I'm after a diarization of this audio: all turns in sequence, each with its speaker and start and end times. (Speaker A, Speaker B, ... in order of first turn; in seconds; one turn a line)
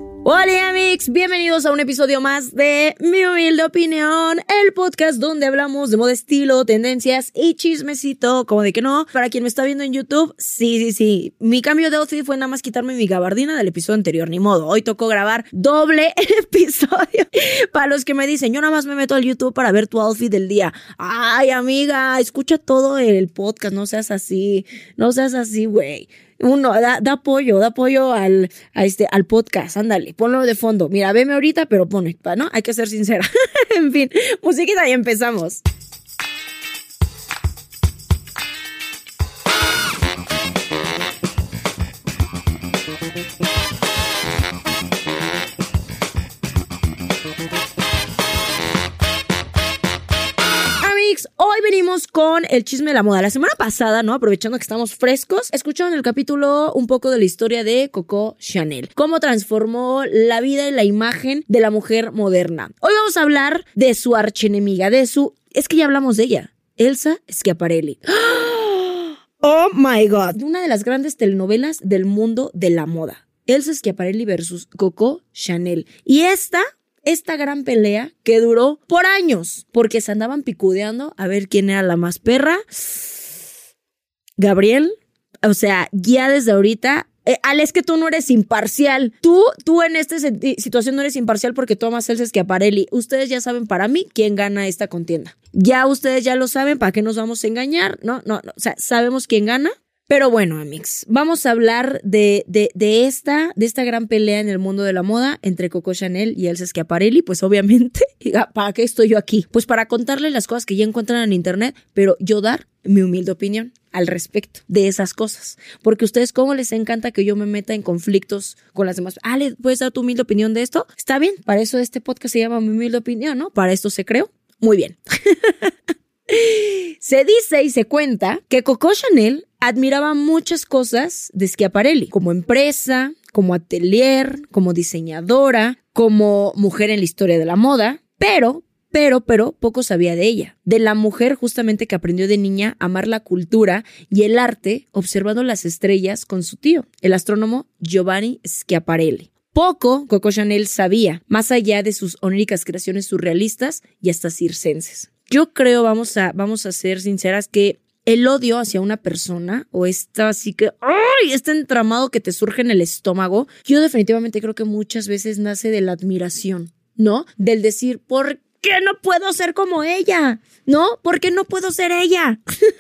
Speaker A: 0.2-35.6
Speaker A: 50.8-83.1
Speaker A: 84.4-84.9
Speaker A: 85.4-125.7
Speaker A: 126.3-172.4